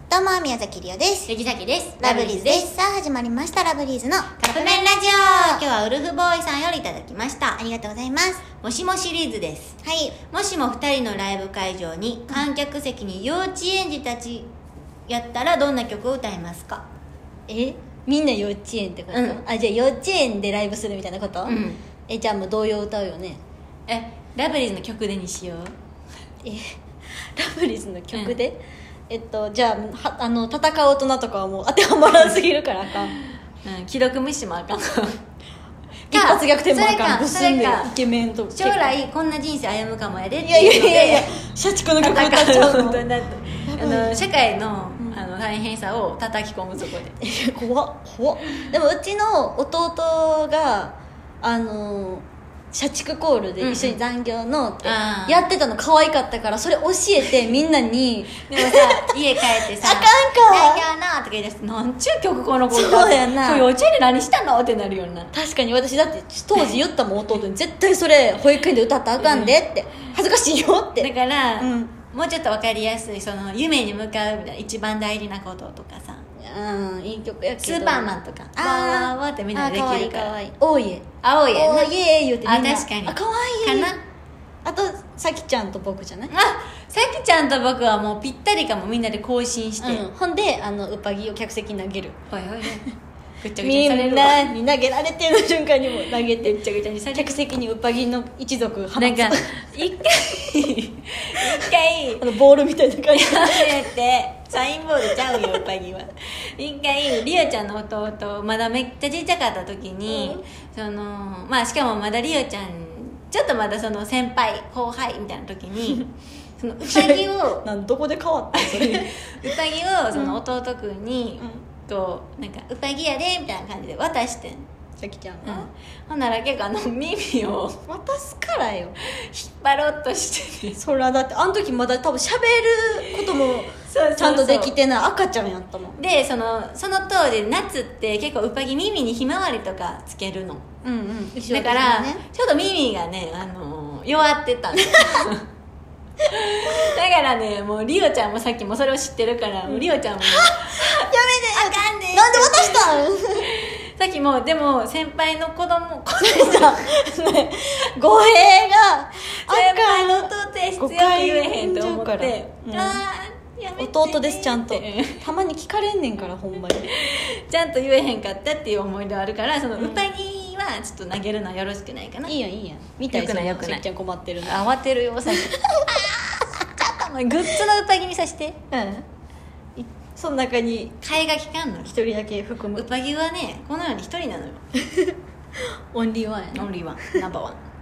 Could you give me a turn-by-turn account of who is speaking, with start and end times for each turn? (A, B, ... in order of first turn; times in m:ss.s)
0:00.1-0:01.3 A
0:01.3-0:02.7 B
0:02.0-0:05.6 A
0:04.4-0:07.6 B
0:07.6-0:08.5 A
0:08.6-0:14.5 B
0:09.8-0:10.2 A
0:15.1-0:16.9 B
0:17.5-0:23.4 C
0:19.1-0:19.4 B
0:21.5-0:21.8 B
0:23.9-0:25.8 B
0:27.2-0:33.2 C
0:28.1-0:28.4 B
0:33.6-0:35.2 B
0:36.1-0:37.9 B
0:36.1-0:38.9 C
0:38.5-0:41.3 B
0:40.4-0:43.1 C
0:42.0-0:47.2 B
0:43.7-0:44.2 C
0:45.0-0:45.2 C
0:47.2-0:59.1 C
0:53.6-0:54.0 B
0:54.8-0:55.5 B
0:58.4-1:05.3 B
0:59.7-1:00.9 C
1:02.7-1:03.7 C
1:05.3-1:12.0 C
1:09.2-1:09.6 B
1:11.0-1:16.2 B
1:16.4-1:23.9 C
1:17.6-1:20.4 B
1:21.2-1:21.9 B
1:22.4-1:24.0 B
1:24.6-1:26.3 C
1:26.3-1:30.0 B
1:29.8-1:32.2 C
1:32.3-1:32.9 B
1:33.4-1:34.6 B
1:33.6-1:36.6 C
1:36.2-1:37.5 B
1:37.1-1:39.5 C
1:39.0-1:42.2 B
1:42.2-1:43.9 C
1:43.1-1:57.7 B
1:45.1-1:45.6 C
1:50.1-1:50.4 C
1:56.8-1:59.5 C
1:58.5-2:04.7 B
2:00.1-2:00.4 C
2:01.4-2:01.7 C
2:05.0-2:05.7 C
2:05.4-2:07.8 B
2:07.9-2:09.0 C
2:09.0-2:10.8 B
2:10.7-2:16.0 C
2:13.2-2:14.8 B
2:16.0-2:20.6 B
2:20.8-2:22.2 C
2:21.5-2:25.5 B
2:24.7-2:25.3 C
2:26.3-2:36.8 B
2:29.7-2:33.5 C
2:36.2-2:43.0 C
2:39.5-2:45.3 B
2:43.8-2:46.9 C
2:46.9-2:52.4 B
2:49.8-2:50.1 C
2:52.3-2:54.7 C
2:53.1-2:53.8 B
2:54.4-2:58.6 B
2:55.3-2:55.6 C
2:58.7-2:59.0 C
2:59.8-3:01.0 C
3:01.0-3:02.0 B
3:01.9-3:02.8 C
3:02.8-3:04.6 B
3:04.8-3:05.2 C
3:05.9-3:07.2 C
3:06.5-3:07.6 B